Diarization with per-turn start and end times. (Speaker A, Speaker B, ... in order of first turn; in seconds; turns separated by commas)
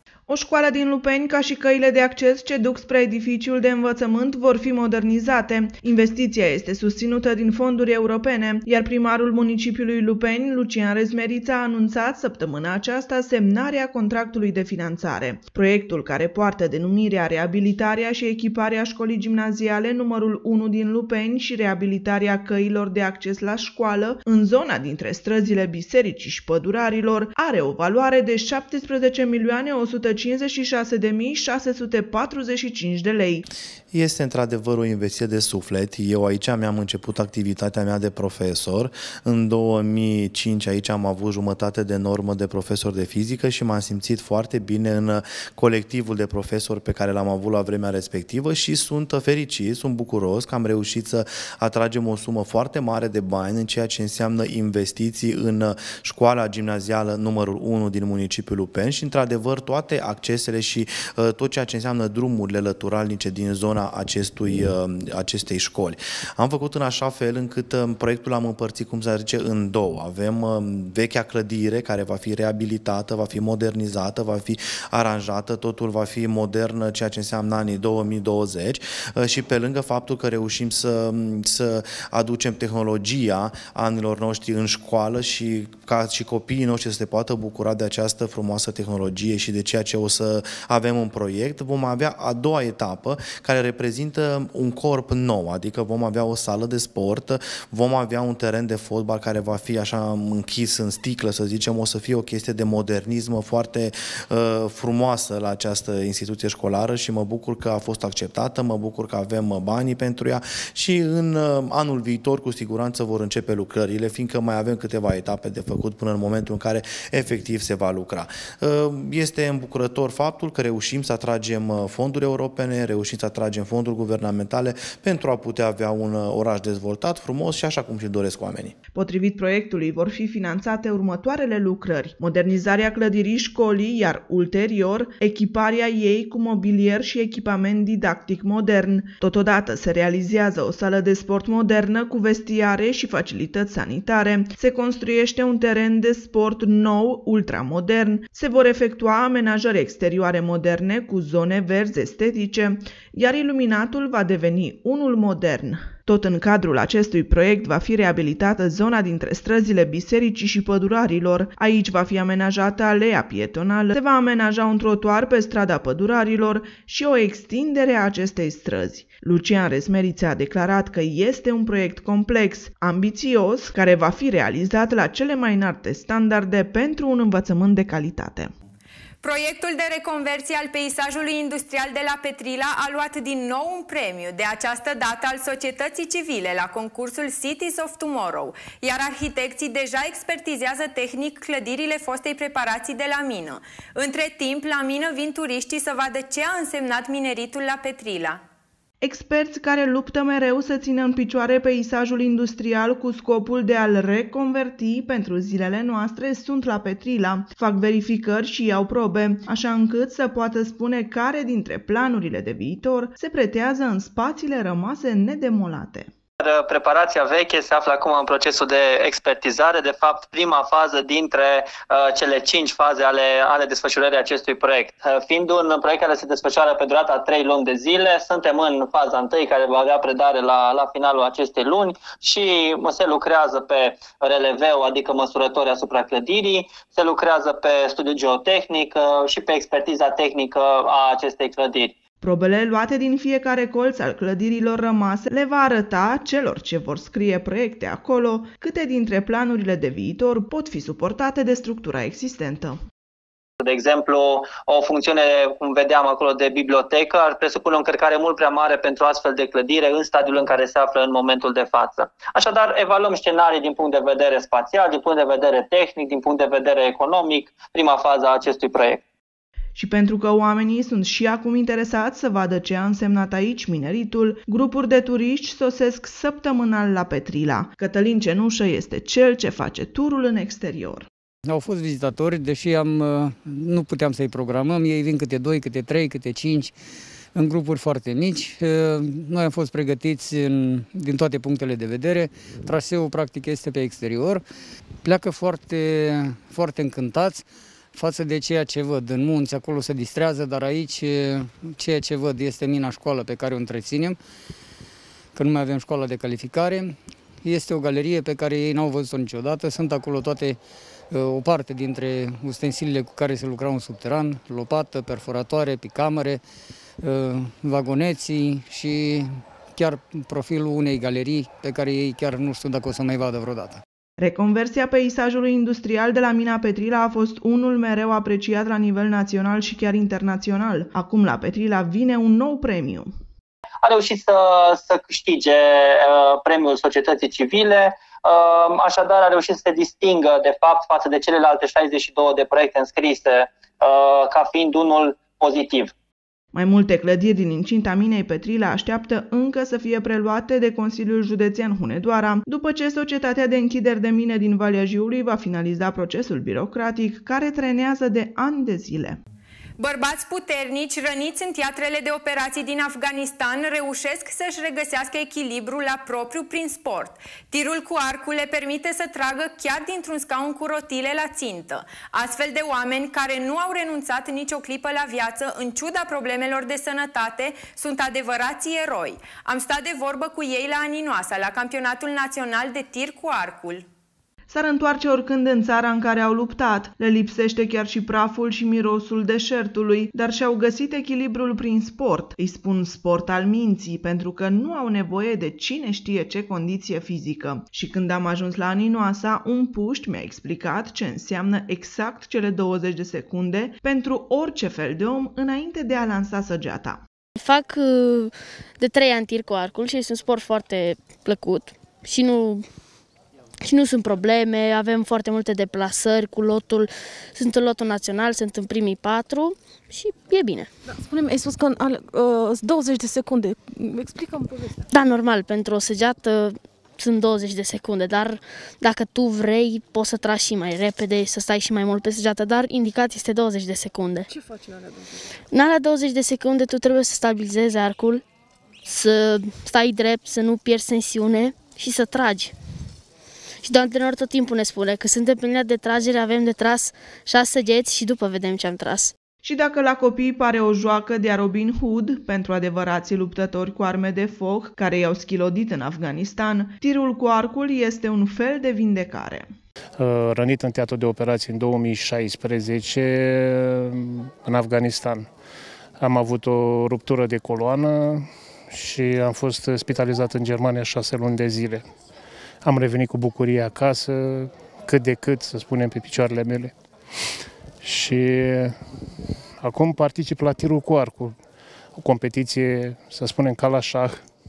Speaker A: 0.3-33.4, Speaker B: 33.9-128.7, Speaker A: 128.9-178.5, Speaker C: 179.2-198.4, Speaker A: 199.0-216.1, Speaker D: 216.5-241.9, Speaker A: 242.2-252.8, Speaker D: 253.7-269.0, Speaker A: 269.7-281.1, Speaker E: 281.4-286.7, Speaker E: 287.3-294.4, Speaker E: 295.0-304.2, Speaker E: 305.3-310.6, Speaker E: 311.1-316.4, Speaker E: 317.0-323.8, Speaker A: 324.2-333.1, Speaker D: 333.8-345.9, Speaker A: 346.5-359.2, Speaker C: 359.8-383.8, Speaker A: 384.5-407.0, Speaker F: 407.4-412.6, Speaker F: 413.6-420.7, Speaker G: 420.9-424.8, Speaker F: 424.9-434.3, Speaker G: 434.3-434.9, Speaker F: 435.5-438.2, Speaker F: 438.8-442.5, Speaker F: 443.6-449.1, Speaker A: 449.4-459.5, Speaker H: 460.0-465.3, Speaker H: 466.0-471.8, Speaker H: 472.6-476.7, Speaker H: 477.8-478.7, Speaker H: 479.6-481.3, Speaker H: 481.9-484.2